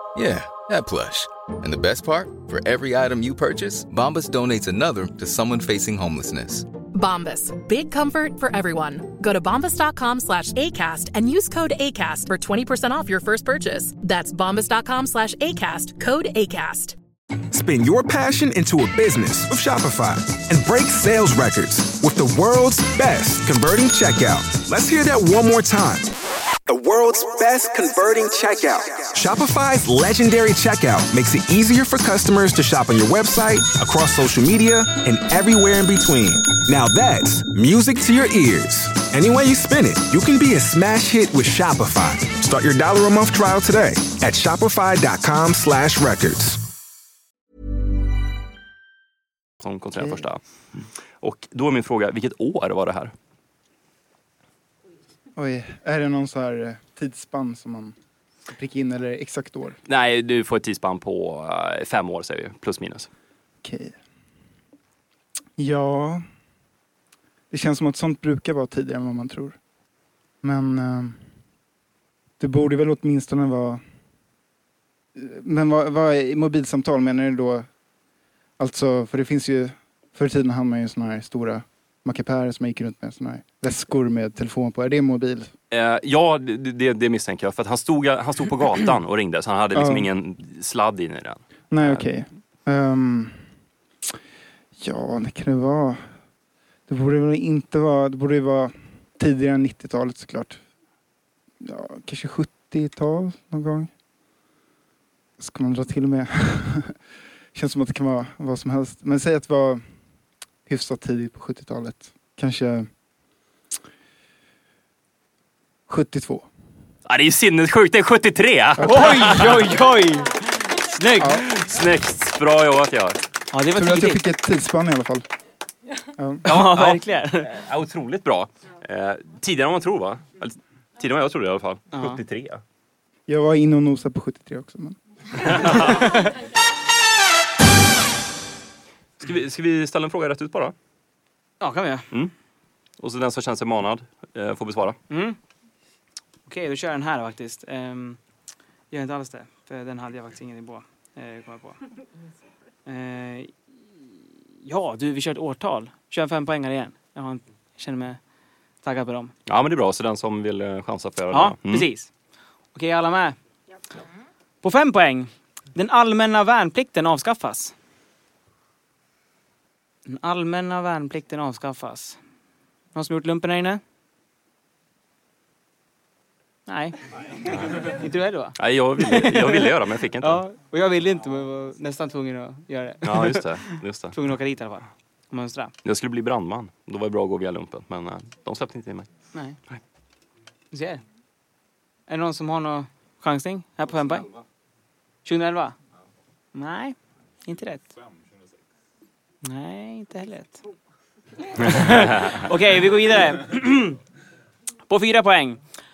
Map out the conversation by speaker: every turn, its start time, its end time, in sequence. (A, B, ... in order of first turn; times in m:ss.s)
0:00.2-0:06.7 A
0:06.9-0:17.0 B
0:17.5-0:26.2 C
0:26.7-0:46.6 C
0:49.6-0:53.1 D
0:55.4-0:57.9 E
0:58.5-0:59.8 E
0:59.9-1:03.1 D
1:03.6-1:04.0 E
1:05.6-1:06.2 E
1:07.5-1:09.6 E
1:10.4-1:11.2 E
1:12.4-1:13.8 E
1:15.2-1:17.7 E
1:18.6-1:25.5 E
1:25.7-1:32.2 D
1:29.8-1:30.1 E
1:31.7-1:33.5 E
1:34.8-1:36.1 E
1:36.9-1:40.6 E
1:41.6-1:43.9 E
1:45.4-1:46.9 E
1:47.5-1:49.8 E
1:50.7-1:52.9 E
1:55.9-1:56.5 E
1:57.1-1:59.7 D
1:58.8-2:01.5 F
1:58.8-1:59.1 E
2:01.2-2:03.2 D
2:03.5-2:04.2 F
2:03.7-2:05.3 E
2:06.2-2:06.4 E
2:06.4-2:07.5 F
2:06.5-2:12.6 D
2:11.9-2:12.2 F
2:13.3-2:15.0 E
2:15.4-2:16.0 D
2:15.8-2:16.3 F
2:19.2-2:20.8 D
2:21.6-2:22.1 F
2:23.0-2:25.0 D
2:25.1-2:25.4 F
2:26.5-2:28.2 F
2:28.9-2:31.8 F
2:32.9-2:33.5 F
2:34.6-2:38.2 F
2:38.8-2:39.3 F
2:39.5-2:41.9 D
2:41.3-2:42.1 F
2:42.7-2:43.4 F
2:44.6-2:47.7 F
2:50.1-2:52.2 F
2:52.9-2:53.8 F
2:56.7-2:57.0 F
2:57.5-2:59.7 F
2:58.6-3:00.4 D
3:00.2-3:05.7 F
3:03.0-3:04.2 D
3:05.8-3:09.1 D
3:10.7-3:11.0 F
3:12.1-3:14.3 F
3:15.2-3:15.8 F
3:16.6-3:17.9 F
3:19.4-3:20.6 F
3:21.6-3:24.0 F
3:21.6-3:22.4 D
3:24.9-3:25.6 F